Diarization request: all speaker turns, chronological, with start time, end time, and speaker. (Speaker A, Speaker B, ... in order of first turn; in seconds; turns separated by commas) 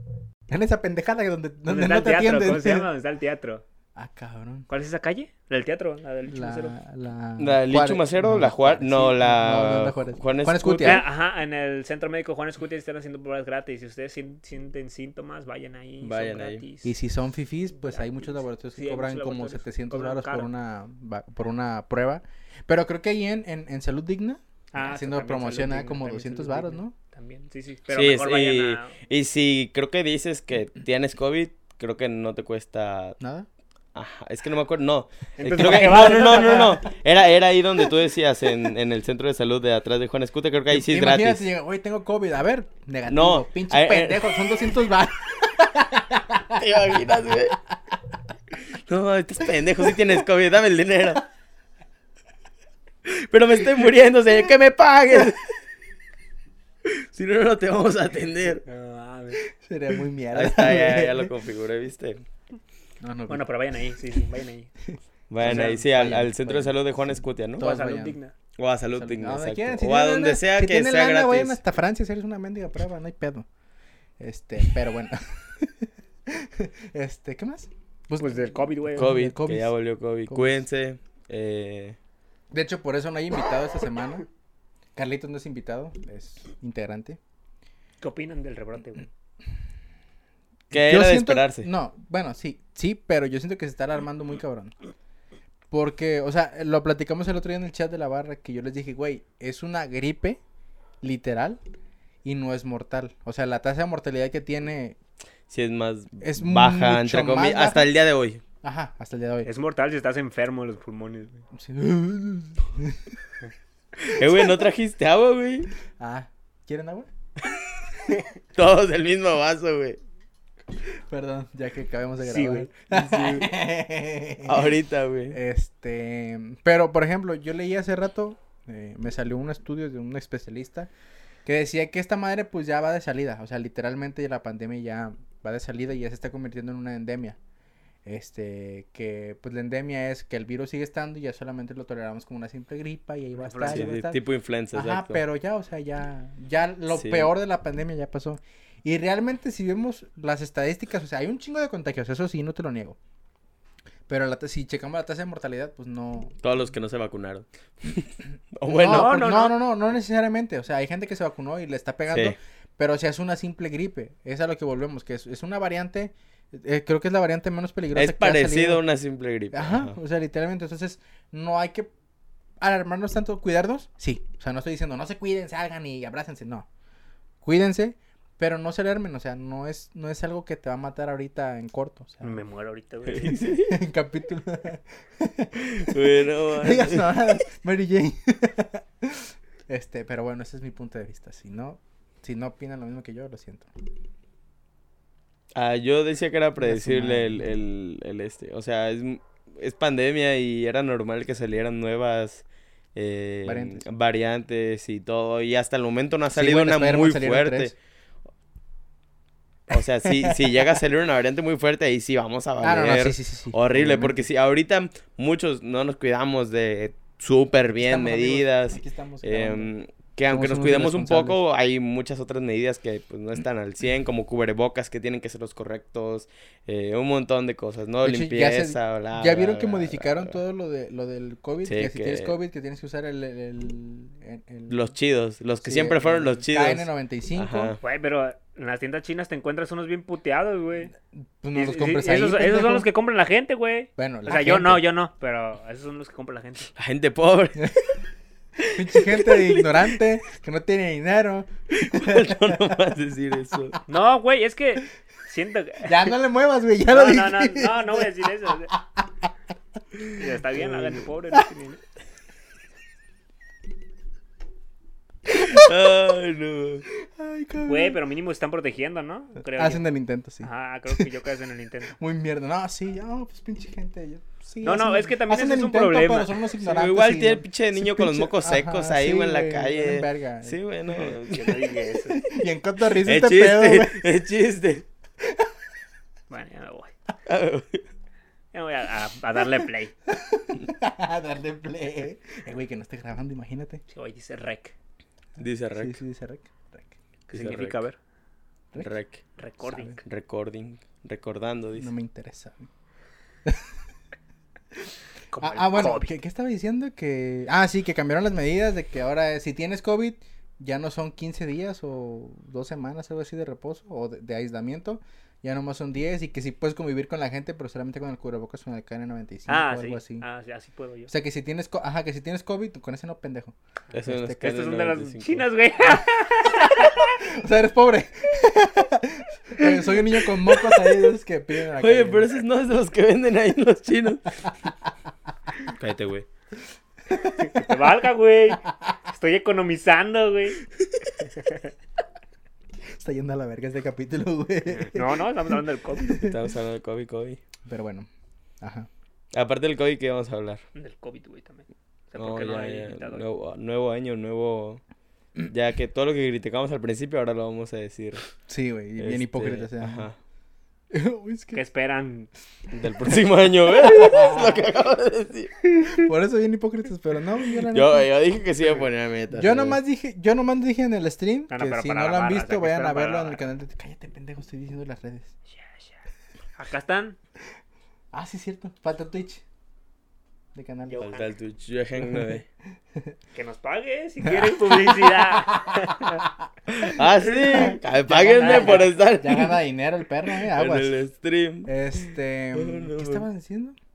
Speaker A: 0.5-2.9, Speaker B: 1.6-3.6, Speaker A: 4.0-4.7, Speaker B: 4.7-6.7, Speaker A: 6.3-11.0, Speaker C: 7.4-11.0, Speaker B: 10.8-16.9, Speaker C: 16.0-16.6, Speaker A: 16.8-26.9, Speaker B: 17.8-20.5, Speaker B: 24.7-28.9, Speaker C: 27.9-33.2, Speaker A: 33.2-33.5, Speaker C: 33.9-41.5, Speaker B: 35.4-36.8, Speaker A: 35.5-36.8, Speaker A: 40.7-46.8, Speaker C: 43.1-44.4, Speaker C: 46.5-47.6, Speaker C: 48.9-51.2, Speaker A: 49.5-50.0, Speaker C: 53.0-55.4, Speaker C: 56.9-58.6, Speaker B: 58.6-59.4, Speaker A: 59.5-61.3, Speaker C: 60.3-62.2, Speaker A: 63.0-63.5, Speaker B: 63.3-64.7, Speaker C: 65.3-67.7, Speaker A: 65.4-66.8, Speaker B: 65.5-65.8, Speaker A: 67.6-68.2, Speaker B: 67.6-68.3, Speaker C: 68.6-71.6, Speaker A: 68.9-73.5, Speaker A: 74.2-79.7, Speaker B: 78.2-79.1, Speaker C: 79.0-82.0, Speaker A: 80.3-80.6, Speaker A: 82.5-84.2, Speaker A: 85.0-87.2, Speaker B: 88.0-89.1, Speaker C: 90.7-91.7, Speaker A: 90.7-94.7, Speaker A: 95.7-100.4, Speaker A: 101.0-101.6, Speaker A: 102.2-105.0, Speaker C: 105.5-108.4, Speaker A: 106.2-107.9, Speaker A: 108.6-109.5, Speaker B: 109.4-111.4, Speaker A: 111.5-113.1, Speaker C: 114.0-115.7, Speaker A: 116.0-117.1, Speaker C: 118.5-120.0, Speaker A: 120.9-124.7, Speaker B: 122.2-122.7, Speaker C: 122.9-123.5, Speaker C: 124.4-125.4, Speaker A: 125.3-130.9, Speaker A: 131.4-137.4, Speaker A: 138.0-144.2, Speaker B: 143.3-143.9, Speaker C: 143.6-145.2, Speaker A: 144.7-153.0, Speaker C: 146.9-147.3, Speaker A: 154.1-156.3, Speaker C: 156.4-159.2, Speaker A: 158.7-168.8, Speaker B: 158.8-159.5, Speaker C: 162.1-162.3, Speaker C: 167.9-169.9, Speaker A: 169.5-171.9, Speaker A: 172.6-176.7, Speaker A: 177.4-182.4, Speaker B: 182.2-183.4, Speaker C: 183.1-183.8, Speaker A: 183.7-193.7, Speaker C: 185.6-187.4, Speaker C: 195.5-202.4, Speaker A: 196.6-197.5, Speaker C: 202.9-207.7, Speaker A: 203.4-203.8, Speaker A: 206.3-207.7, Speaker C: 209.7-230.4, Speaker A: 210.1-210.8, Speaker A: 212.6-214.2, Speaker A: 217.8-219.7, Speaker A: 220.3-221.4, Speaker A: 228.0-234.9, Speaker C: 231.7-232.3, Speaker C: 234.7-237.8, Speaker A: 235.6-237.7, Speaker B: 237.8-240.9, Speaker A: 241.1-242.9, Speaker B: 241.5-246.7, Speaker A: 244.0-244.8, Speaker C: 246.8-247.9, Speaker C: 248.6-249.9, Speaker A: 248.7-252.8, Speaker C: 251.7-253.8, Speaker B: 253.9-256.1, Speaker A: 255.8-259.3, Speaker B: 256.9-258.7, Speaker B: 260.1-261.8, Speaker C: 265.3-266.8, Speaker A: 267.0-268.0, Speaker B: 267.6-269.8, Speaker A: 269.6-271.1, Speaker B: 270.4-271.9, Speaker A: 271.9-280.6, Speaker B: 274.6-276.3, Speaker C: 276.6-281.6, Speaker B: 281.0-282.2, Speaker A: 281.5-284.0, Speaker C: 283.0-284.8, Speaker B: 286.3-286.9, Speaker C: 287.3-287.9, Speaker B: 288.5-289.9, Speaker A: 290.1-293.8, Speaker B: 293.9-294.7, Speaker C: 295.4-296.0, Speaker A: 295.7-296.9, Speaker B: 297.3-298.0, Speaker C: 297.3-297.8, Speaker C: 298.8-299.2, Speaker B: 299.4-300.0, Speaker C: 300.0-301.9, Speaker A: 301.8-302.7, Speaker A: 303.4-303.7, Speaker B: 305.3-306.1, Speaker A: 305.4-320.2, Speaker B: 319.5-321.1, Speaker A: 321.1-324.5, Speaker C: 323.9-325.4, Speaker B: 324.4-327.2, Speaker A: 326.8-332.3, Speaker C: 331.8-334.4, Speaker C: 335.7-336.3, Speaker A: 337.1-337.8, Speaker B: 337.4-340.6, Speaker B: 341.4-341.6, Speaker A: 342.9-346.4, Speaker B: 344.7-346.2, Speaker C: 346.1-347.4, Speaker A: 347.6-348.1, Speaker A: 348.6-348.9, Speaker C: 349.3-350.6, Speaker B: 350.7-353.2, Speaker C: 352.2-354.8, Speaker C: 355.4-358.3, Speaker A: 358.5-360.1, Speaker C: 359.0-360.2, Speaker A: 360.9-361.6, Speaker B: 361.5-362.3, Speaker C: 362.7-365.5, Speaker A: 363.6-364.6, Speaker A: 365.8-368.1, Speaker C: 367.7-369.8, Speaker A: 368.6-375.3, Speaker B: 371.5-373.4, Speaker B: 375.5-376.0, Speaker B: 376.6-377.2, Speaker A: 378.1-379.4, Speaker A: 380.5-381.0, Speaker B: 380.9-381.3, Speaker C: 381.0-382.4, Speaker A: 382.0-382.4, Speaker B: 383.3-386.2, Speaker A: 384.2-386.1, Speaker C: 386.7-389.6, Speaker A: 387.0-390.9, Speaker B: 388.4-388.9, Speaker C: 390.4-393.2, Speaker A: 391.6-393.8